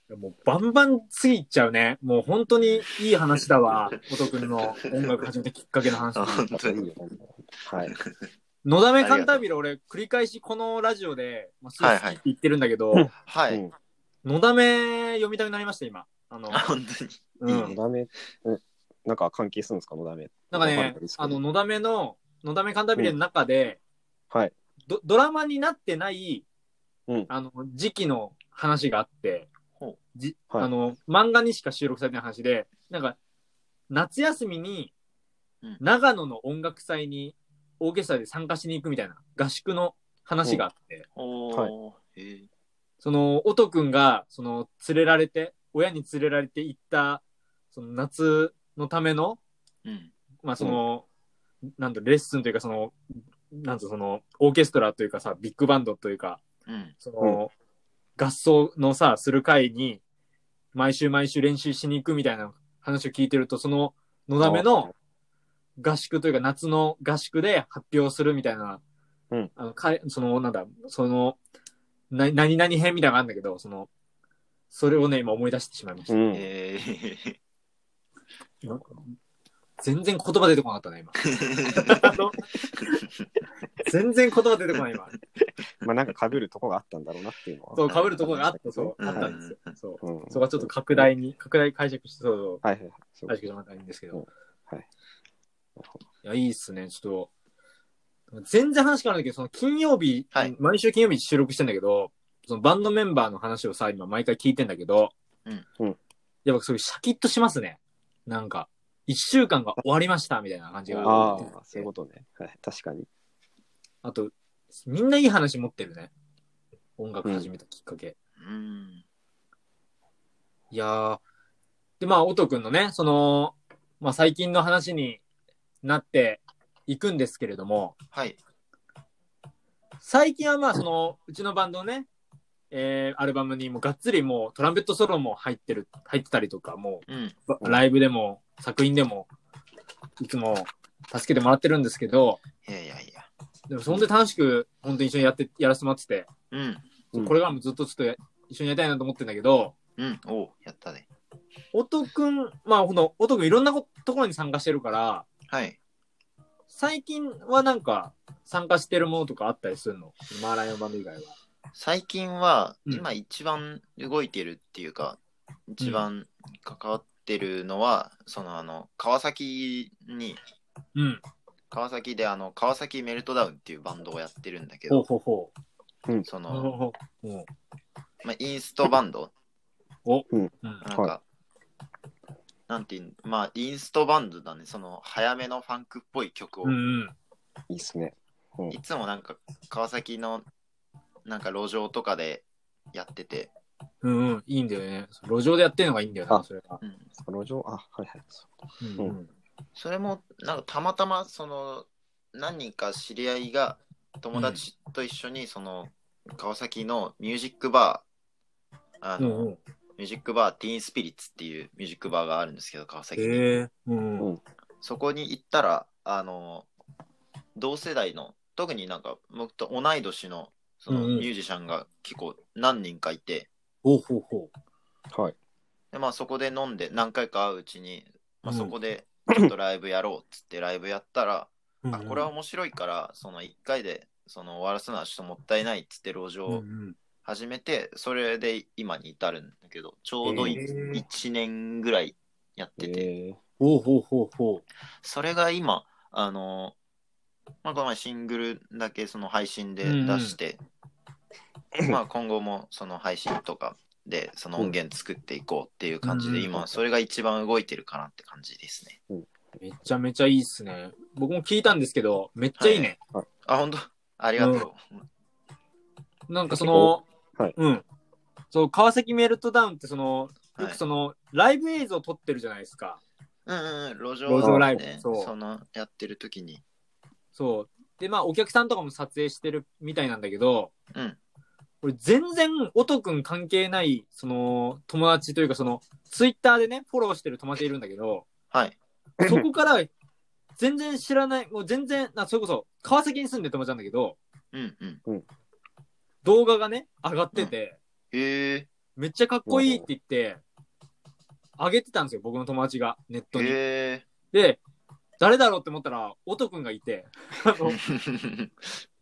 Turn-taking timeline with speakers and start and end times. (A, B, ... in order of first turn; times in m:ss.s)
0:00.1-0:06.5 A
0:04.5-0:05.2 B
0:06.1-0:06.9 B
0:06.5-0:07.9 C
0:07.8-0:08.2 B
0:08.6-0:13.1 A
0:09.0-0:09.4 B
0:11.8-0:12.2 B
0:12.9-0:13.7 C
0:13.2-0:13.6 B
0:14.2-0:16.7 A
0:16.5-0:17.7 B
0:17.4-0:17.8 A
0:17.4-0:21.4 C
0:20.5-0:23.8 A
0:24.9-0:26.4 A
0:27.3-0:29.5 A
0:30.1-0:33.2 A
0:33.9-0:34.9 A
0:35.8-0:41.0 A
0:41.2-0:42.5 B
0:43.0-0:49.4 A
0:49.8-0:50.1 B
0:50.4-0:51.0 A
0:51.8-0:53.0 A
0:53.5-0:56.4 A
0:56.6-0:56.9 B
0:57.0-0:57.5 A
0:58.2-1:00.0 A
1:00.7-1:04.9 A
1:04.4-1:04.9 C
1:05.8-1:08.8 A
1:09.6-1:11.4 A
1:12.1-1:13.9 A
1:14.7-1:16.2 A
1:16.1-1:16.5 C
1:16.3-1:17.4 B
1:18.6-1:19.0 A
1:19.8-1:23.0 A
1:21.3-1:22.2 B
1:23.8-1:25.1 A
1:25.8-1:29.3 C
1:27.7-1:32.6 A
1:27.8-1:28.2 B
1:29.0-1:29.7 B
1:30.0-1:31.2 C
1:32.6-1:33.3 C
1:33.3-1:34.2 A
1:34.1-1:34.9 C
1:35.8-1:36.0 C
1:36.2-1:37.3 A
1:38.3-1:45.1 A
1:46.4-1:51.9 A
1:50.9-1:53.1 C
1:51.1-1:51.3 B
1:54.0-1:56.1 A
1:57.0-1:58.1 A
1:57.2-1:57.5 C
1:58.4-1:59.0 B
2:00.7-2:01.2 A
2:02.0-2:05.2 A
2:05.8-2:08.0 A
2:08.1-2:08.4 B
2:10.0-2:12.1 A
2:12.7-2:19.3 A
2:17.1-2:17.4 B
2:20.2-2:22.4 A
2:22.6-2:23.3 B
2:23.7-2:26.3 A
2:26.5-2:26.8 B
2:27.2-2:29.7 A
2:30.0-2:31.1 B
2:31.7-2:35.2 A
2:35.5-2:35.8 B
2:36.7-2:41.3 A
2:41.8-2:45.2 B
2:45.7-2:50.4 B
2:45.8-2:46.1 A
2:50.9-2:51.2 A
2:51.7-2:55.0 B
2:54.9-2:55.5 A
2:56.2-2:56.7 B
2:56.5-2:57.5 A
2:58.2-2:59.3 B
3:00.0-3:00.8 A
3:00.3-3:01.1 C
3:00.8-3:01.2 B
3:02.7-3:06.8 B
3:06.6-3:07.1 A
3:07.7-3:08.8 C
3:08.7-3:10.4 B
3:11.2-3:13.5 B
3:14.0-3:16.8 A
3:16.8-3:17.1 B
3:17.2-3:19.2 C
3:18.8-3:19.3 A
3:19.8-3:28.0 B
3:24.3-3:24.6 A
3:29.0-3:33.6 B
3:29.2-3:29.6 A
3:33.2-3:34.3 A
3:34.8-3:36.7 B
3:37.5-3:43.5 B
3:40.9-3:41.3 A
3:43.8-3:44.5 A
3:45.9-3:56.6 B
3:48.4-3:48.7 A
3:51.8-3:52.3 A
3:56.5-3:57.0 A
3:57.2-4:03.1 B
4:00.2-4:00.7 C
4:00.2-4:01.0 A
4:02.8-4:03.4 C
4:03.6-4:04.6 A
4:05.0-4:06.8 B
4:07.6-4:10.6 B
4:09.8-4:10.4 A
4:11.8-4:19.0 B
4:16.0-4:16.5 A
4:16.5-4:16.8 C
4:19.6-4:23.0 A
4:22.6-4:22.9 B
4:23.4-4:24.8 B
4:24.4-4:24.7 A
4:26.3-4:27.0 A
4:26.5-4:27.6 C
4:27.6-4:27.8 A
4:28.5-4:33.0 A
4:33.4-4:36.6 B
4:34.2-4:35.3 A
4:34.4-4:34.7 C
4:37.3-4:40.7 A
4:41.8-4:48.3 A
4:48.5-4:48.8 B
4:49.2-4:49.5 C
4:49.2-4:49.9 A
4:50.6-4:54.2 A
4:54.5-4:55.0 B
4:56.2-4:57.8 A
4:58.1-4:58.7 B
4:59.0-5:00.4 A
4:59.5-4:59.9 C
5:01.6-5:03.6 A
5:03.3-5:04.0 B
5:04.3-5:04.6 A
5:05.2-5:07.8 A
5:07.7-5:08.5 B